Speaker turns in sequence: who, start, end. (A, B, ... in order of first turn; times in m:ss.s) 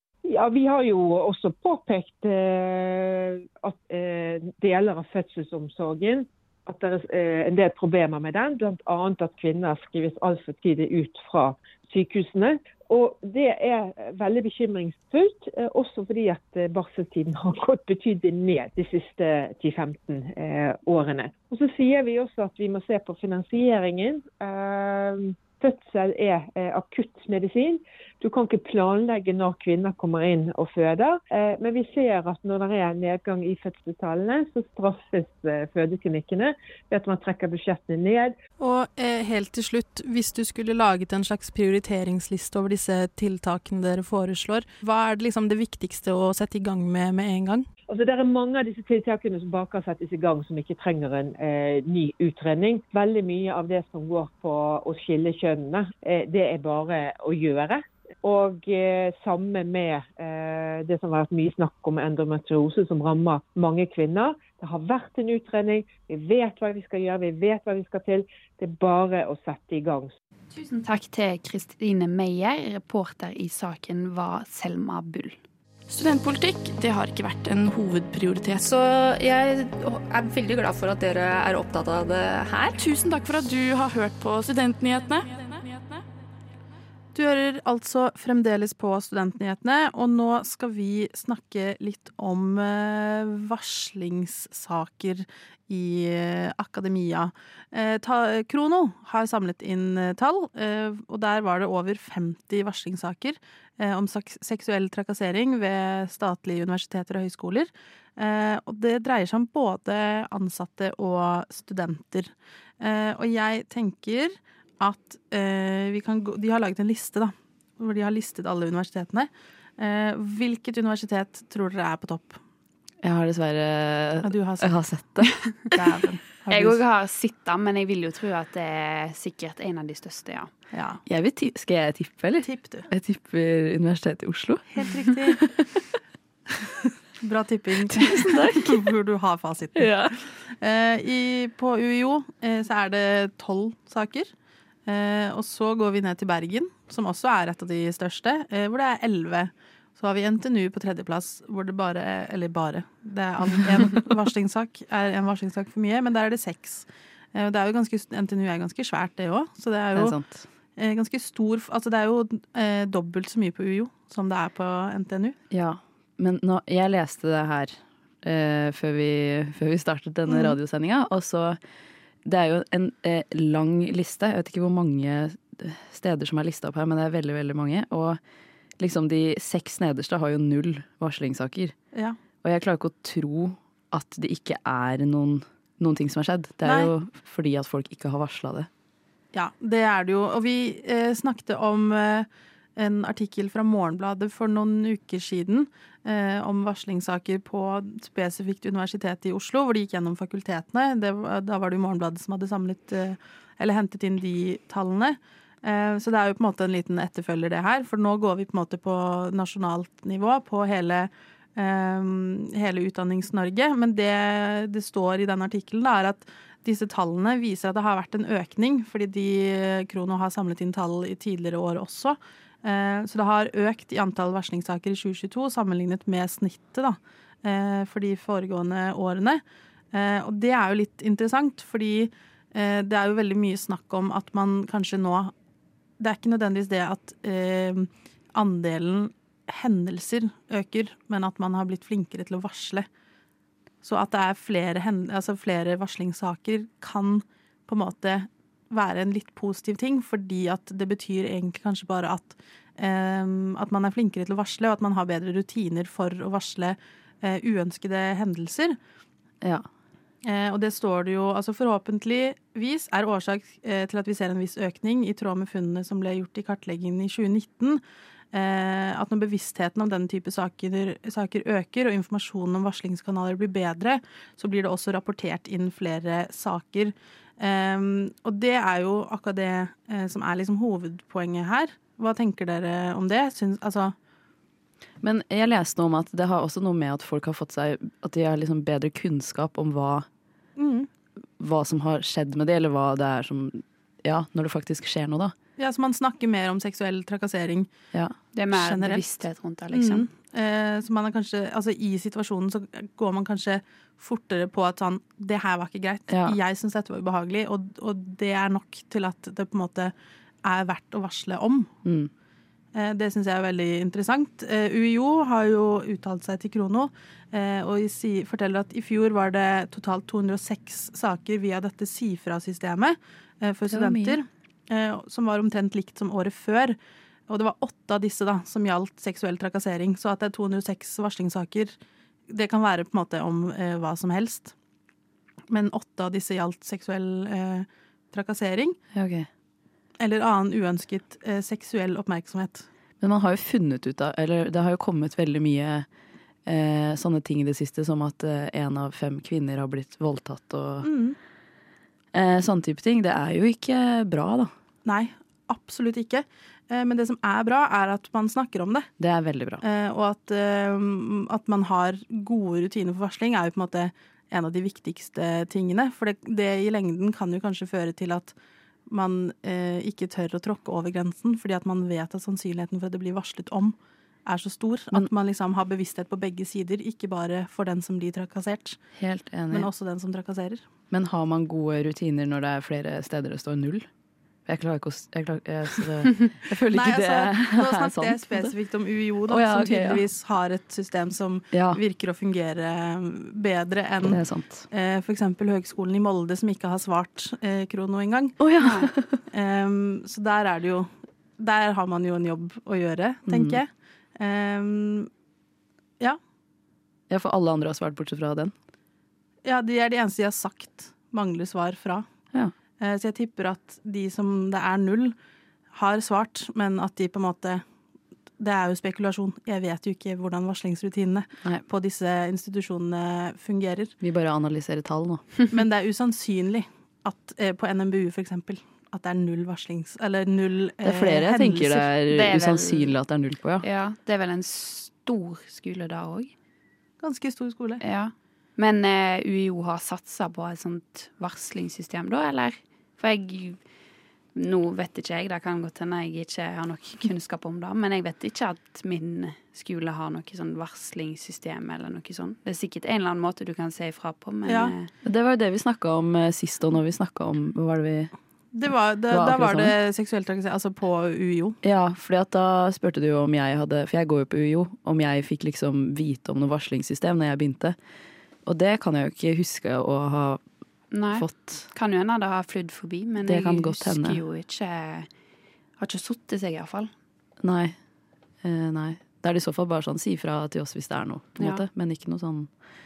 0:00.2-0:38.3 A
0:38.6-0:47.7 B
0:47.9-1:10.1 A
1:10.5-1:15.4 C
1:15.9-1:18.6 D
1:18.6-1:22.8 E
1:22.8-1:26.0 D
1:27.1-2:02.4 B
2:03.0-2:05.3 F
2:04.2-2:04.7 B
2:05.7-2:06.8 B
2:06.5-2:10.5 C
2:10.7-2:11.0 B
2:11.0-2:14.7 F
2:12.4-2:12.9 B
2:14.7-2:15.4 B
2:15.3-2:15.8 F
2:17.2-2:24.3 B
2:17.9-2:18.8 F
2:19.8-2:20.1 F
2:24.8-2:40.2 B
2:39.9-2:40.4 F
2:40.8-2:45.4 B
2:45.5-2:51.6 F
2:50.3-2:50.6 B
2:52.2-2:58.2 F
2:58.8-3:01.7 F
3:02.4-3:08.7 F
3:06.6-3:06.9 B
3:09.3-3:55.3 B
3:56.0-4:02.9 B
4:03.8-4:18.8 B
4:20.2-4:27.8 B
4:28.3-4:43.9 B
4:45.0-4:50.1 F
4:50.6-4:50.9 B
4:51.4-4:55.3 F
4:55.6-4:57.7 B
4:58.3-5:00.1 C
4:58.5-4:59.0 B
4:59.7-5:09.9 B
5:06.1-5:06.4 F
5:10.4-5:11.7 B
5:11.8-5:12.1 F
5:12.7-5:26.8 B
5:23.7-5:24.2 F
5:27.3-5:31.8 B
5:32.3-5:34.5 B
5:35.5-5:38.8 B
5:38.9-5:39.3 F
5:40.0-5:42.7 B
5:43.0-5:45.8 F
5:46.5-5:50.9 F
5:50.8-5:51.2 B
5:52.1-5:54.5 F
5:54.8-5:58.9 B
5:59.0-5:59.6 F
5:59.6-6:08.3 B
6:08.9-6:18.8 B
6:19.0-6:19.7 F
6:19.5-6:20.7 B
6:20.9-6:23.8 F
6:24.4-6:28.5 F
6:26.7-6:38.4 B
6:29.3-6:30.0 F
6:31.5-6:31.8 F
6:34.0-6:34.6 F
6:38.4-6:39.2 F
6:38.6-6:38.9 C
6:39.3-6:45.1 B
6:43.3-6:43.6 F
6:47.1-6:48.5 F
6:49.4-6:52.0 B
6:52.8-6:55.1 B
6:55.7-6:57.6 B
6:58.4-7:03.9 B
7:04.0-7:05.2 F
7:05.5-7:11.9 B
7:10.8-7:13.6 F
7:12.1-7:12.9 C
7:13.6-7:16.3 C
7:17.0-7:17.8 B
7:17.8-7:23.6 C
7:24.3-7:34.9 C
7:34.4-7:34.7 B
7:35.0-7:38.1 F
7:38.5-7:41.6 B
7:39.1-7:39.7 F
7:41.6-7:47.8 F
7:48.4-7:50.4 F
7:50.9-7:55.1 C
7:51.1-7:51.6 F
7:53.2-7:54.2 F
7:55.8-7:56.9 C
7:57.4-7:57.7 F
7:58.4-8:02.5 F
8:01.4-8:01.6 C